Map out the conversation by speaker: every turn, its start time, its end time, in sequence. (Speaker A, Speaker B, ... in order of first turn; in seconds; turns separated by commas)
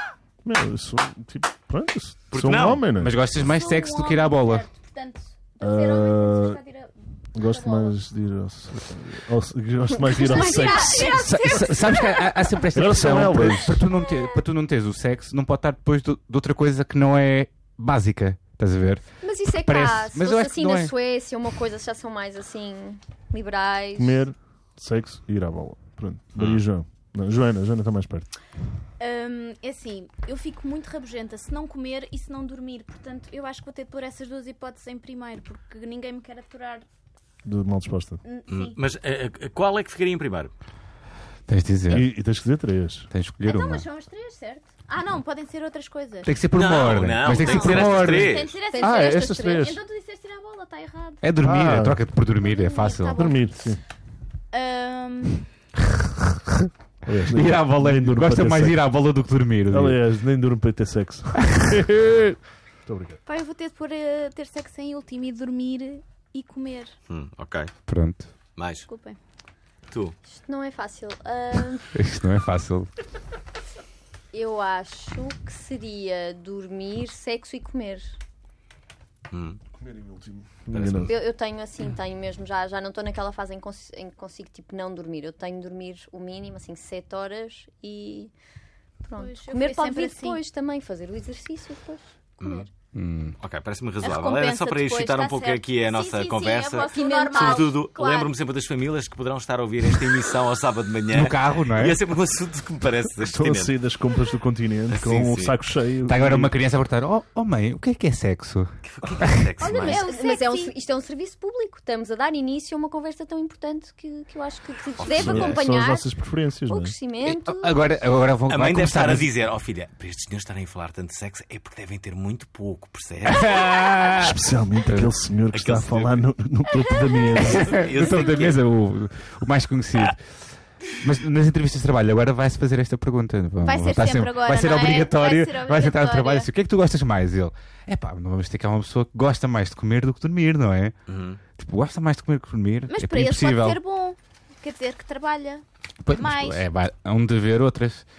Speaker A: 0.4-3.2, Speaker B: 2.3-2.8, Speaker C: 3.0-4.7, Speaker D: 3.2-8.0, Speaker A: 5.6-6.6, Speaker A: 7.4-11.2, Speaker E: 9.9-12.0, Speaker D: 10.1-12.5, Speaker C: 11.0-20.9, Speaker A: 12.8-13.8, Speaker D: 14.1-14.3, Speaker E: 19.2-24.2, Speaker A: 24.0-28.3, Speaker B: 26.4-26.6, Speaker D: 29.0-36.9, Speaker A: 37.5-38.2, Speaker D: 38.2-38.8, Speaker B: 38.5-40.5, Speaker C: 41.5-42.1, Speaker A: 41.9-43.1, Speaker C: 43.1-43.9, Speaker D: 43.4-46.4, Speaker C: 46.2-48.4, Speaker B: 46.5-48.5, Speaker D: 47.2-51.2, Speaker E: 48.7-49.7, Speaker A: 48.8-49.8, Speaker C: 51.2-53.3, Speaker A: 51.4-52.0, Speaker D: 52.4-53.5, Speaker A: 53.2-53.8, Speaker D: 54.5-55.5, Speaker A: 57.0-58.8, Speaker C: 57.3-60.0, Speaker A: 59.7-62.0, Speaker C: 61.5-62.4, Speaker A: 62.9-63.2, Speaker D: 63.3-67.0, Speaker B: 67.1-67.7, Speaker C: 67.9-68.3, Speaker B: 68.6-68.9, Speaker D: 68.9-69.2, Speaker E: 70.3-71.9, Speaker C: 71.9-72.9, Speaker E: 74.3-78.1, Speaker B: 79.3-79.6, Speaker A: 79.8-81.1, Speaker B: 80.7-81.1, Speaker E: 81.1-88.3, Speaker E: 89.0-92.6, Speaker D: 89.2-90.4, Speaker B: 92.4-92.7, Speaker C: 92.9-93.3, Speaker B: 93.4-103.8, Speaker D: 94.0-98.3, Speaker E: 96.9-97.8, Speaker C: 101.1-102.0, Speaker A: 103.2-106.5, Speaker B: 104.9-105.6, Speaker C: 106.1-109.5, Speaker B: 108.8-110.0, Speaker D: 109.6-110.7, Speaker E: 109.6-116.1, Speaker B: 115.0-115.6, Speaker A: 115.0-116.9, Speaker E: 116.7-117.8, Speaker C: 117.2-119.3, Speaker B: 118.5-123.7, Speaker C: 123.2-125.1, Speaker A: 124.1-127.9, Speaker B: 125.5-126.2, Speaker B: 127.4-128.6, Speaker C: 127.5-130.2, Speaker C: 131.0-140.9, Speaker D: 133.6-136.5, Speaker B: 141.1-141.4, Speaker C: 141.6-143.8, Speaker D: 142.9-146.6, Speaker C: 146.1-148.1